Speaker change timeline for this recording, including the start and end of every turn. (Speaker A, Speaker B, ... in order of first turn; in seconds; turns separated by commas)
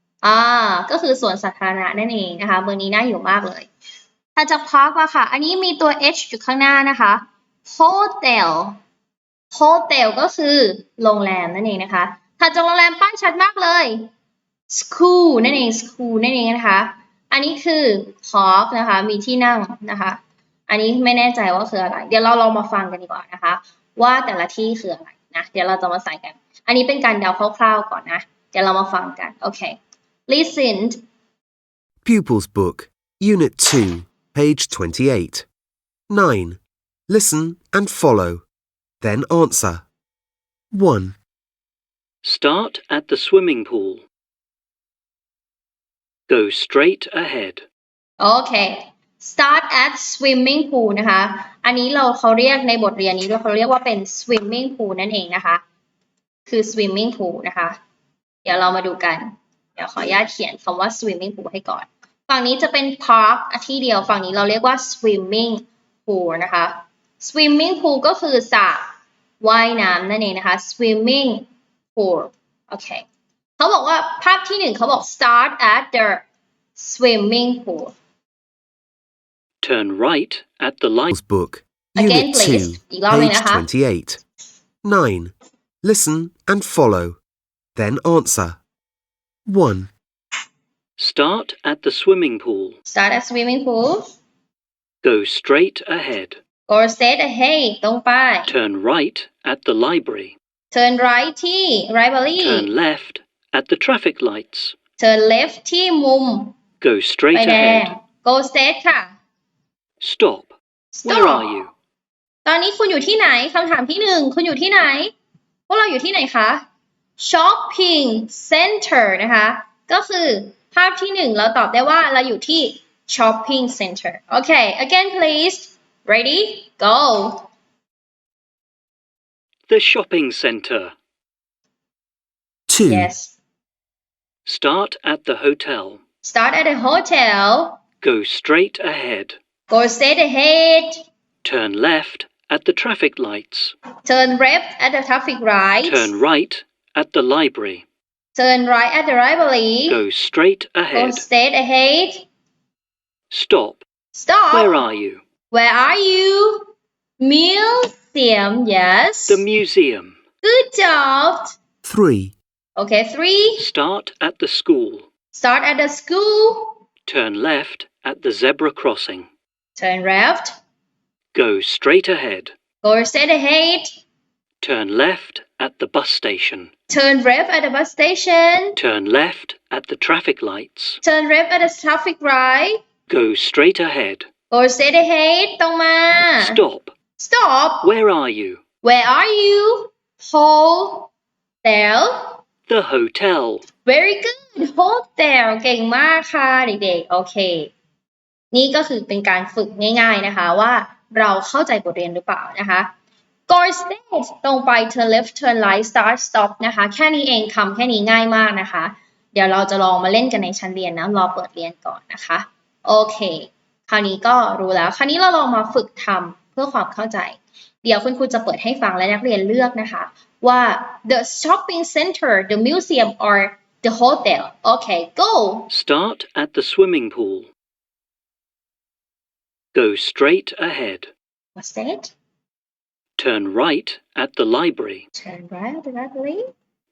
Speaker A: 0.2-3.7, Speaker A: 4.4-8.8, Speaker A: 9.5-14.1, Speaker A: 14.7-31.0, Speaker B: 32.0-35.5, Speaker B: 36.1-38.4, Speaker B: 39.0-39.9, Speaker B: 40.7-41.2, Speaker C: 42.2-44.0, Speaker C: 46.3-47.6, Speaker A: 48.2-55.6, Speaker A: 56.5-57.8, Speaker A: 58.4-68.9, Speaker A: 69.4-73.0, Speaker A: 73.6-76.2, Speaker A: 76.8-77.9, Speaker C: 79.6-81.1, Speaker B: 81.1-84.2, Speaker A: 82.0-83.7, Speaker B: 84.8-87.2, Speaker B: 87.8-88.6, Speaker B: 89.5-89.9, Speaker C: 91.0-92.8, Speaker A: 92.8-94.0, Speaker C: 95.0-96.4, Speaker A: 96.7-98.5, Speaker C: 98.5-100.3, Speaker A: 100.7-102.7, Speaker C: 102.4-104.8, Speaker A: 105.0-106.5, Speaker C: 106.8-107.9, Speaker A: 107.3-109.2, Speaker C: 110.0-111.7, Speaker A: 110.9-111.5, Speaker A: 112.5-115.1, Speaker A: 115.7-116.6, Speaker A: 117.2-127.5, Speaker C: 129.7-130.9, Speaker B: 132.7-133.1, Speaker A: 132.8-133.3, Speaker C: 134.5-136.0, Speaker A: 136.2-137.8, Speaker C: 138.0-139.4, Speaker A: 139.7-141.0, Speaker C: 141.4-143.8, Speaker A: 144.1-146.1, Speaker C: 145.8-147.8, Speaker A: 148.3-150.0, Speaker C: 149.9-151.2, Speaker A: 150.9-152.2, Speaker C: 153.3-153.8, Speaker A: 154.1-154.8, Speaker C: 154.5-155.2, Speaker A: 155.5-156.7, Speaker A: 157.2-159.4, Speaker C: 159.3-160.2, Speaker A: 160.4-161.6, Speaker B: 161.8-162.4, Speaker A: 162.8-163.7, Speaker C: 163.6-165.1, Speaker A: 165.3-166.8, Speaker C: 167.1-169.3, Speaker A: 169.8-170.6, Speaker C: 171.3-172.5, Speaker A: 172.8-173.9, Speaker C: 174.6-176.7, Speaker A: 176.9-178.8, Speaker C: 178.8-181.0, Speaker A: 181.0-182.8, Speaker C: 183.1-184.3, Speaker A: 184.5-186.6, Speaker C: 186.4-186.9, Speaker A: 187.2-187.9, Speaker C: 187.8-188.6, Speaker A: 188.8-191.1, Speaker A: 191.6-192.4, Speaker C: 192.7-193.6, Speaker A: 193.8-197.7, Speaker A: 198.5-202.9, Speaker A: 203.5-225.7, Speaker C: 225.7-227.5, Speaker C: 229.7-231.1, Speaker A: 231.6-232.1, Speaker C: 233.2-235.0, Speaker A: 235.2-236.4